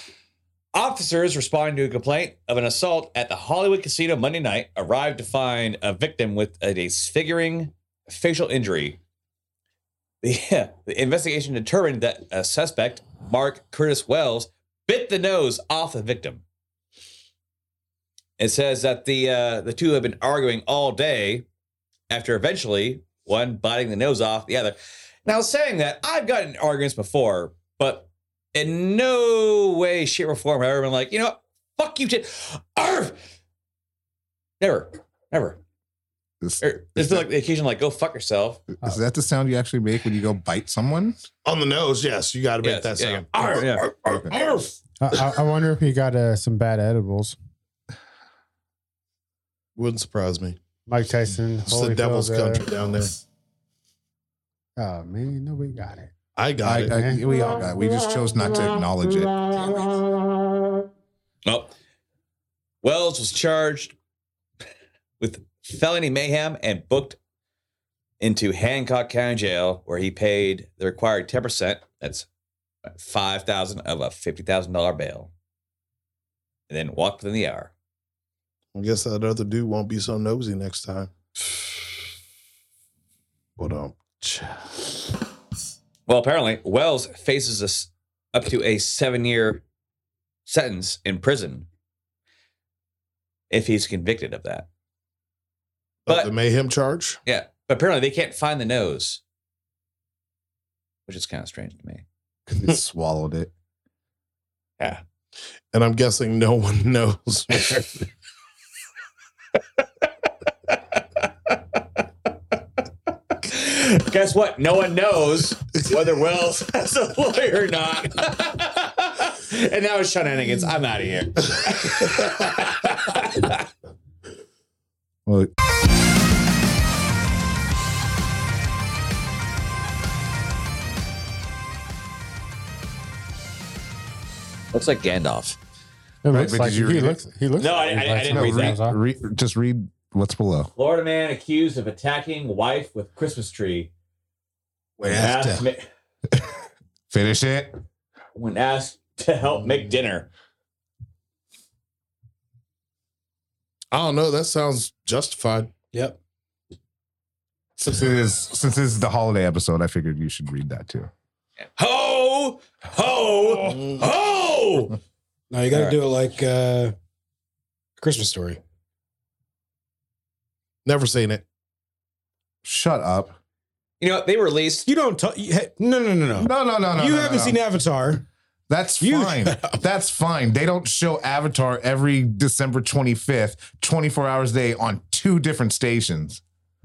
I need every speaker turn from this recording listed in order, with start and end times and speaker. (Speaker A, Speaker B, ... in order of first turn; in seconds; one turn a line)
Speaker A: 0.7-9.0
Speaker A: 10.2-16.4
Speaker A: 18.4-21.4
Speaker A: 22.1-33.2
Speaker A: 34.6-35.6
Speaker B: 36.4-37.2
Speaker A: 36.6-38.6
Speaker B: 38.8-41.2
Speaker C: 41.4-44.8
Speaker A: 42.6-43.9
Speaker D: 45.0-47.4
Speaker C: 49.8-50.6
Speaker D: 50.9-52.6
Speaker C: 51.6-53.2
Speaker D: 54.8-56.1
Speaker C: 56.4-56.9
Speaker D: 56.6-57.2
Speaker B: 56.7-59.8
Speaker A: 61.5-61.7
Speaker A: 62.8-63.9
Speaker A: 65.2-67.2
Speaker A: 68.2-72.2
Speaker A: 73.0-75.3
Speaker A: 76.7-77.7
Speaker C: 78.7-81.1
Speaker C: 83.6-84.8
Speaker A: 86.1-89.6
Speaker A: 90.5-91.7
Speaker A: 93.5-94.7
Speaker C: 96.0-97.2
Speaker A: 97.2-99.2
Speaker A: 101.1-102.0
Speaker B: 102.5-103.5
Speaker C: 105.7-108.0
Speaker A: 113.3-123.6
Speaker A: 134.7-135.6
Speaker D: 136.2-139.0
Speaker B: 136.3-137.2
Speaker A: 137.6-138.8
Speaker B: 138.3-140.7
Speaker A: 140.8-143.9
Speaker A: 145.0-145.8
Speaker E: 145.0-145.6
Speaker B: 147.1-147.7
Speaker A: 148.3-150.3
Speaker C: 153.9-155.7
Speaker E: 155.9-156.2
Speaker B: 157.8-161.1
Speaker A: 161.8-165.0
Speaker E: 165.5-166.9
Speaker A: 165.7-166.0
Speaker E: 168.0-168.6
Speaker C: 170.8-171.4
Speaker B: 172.6-173.4
Speaker A: 174.0-174.9
Speaker E: 174.8-178.2
Speaker B: 176.4-177.6
Speaker B: 178.7-186.4
Speaker E: 179.0-179.8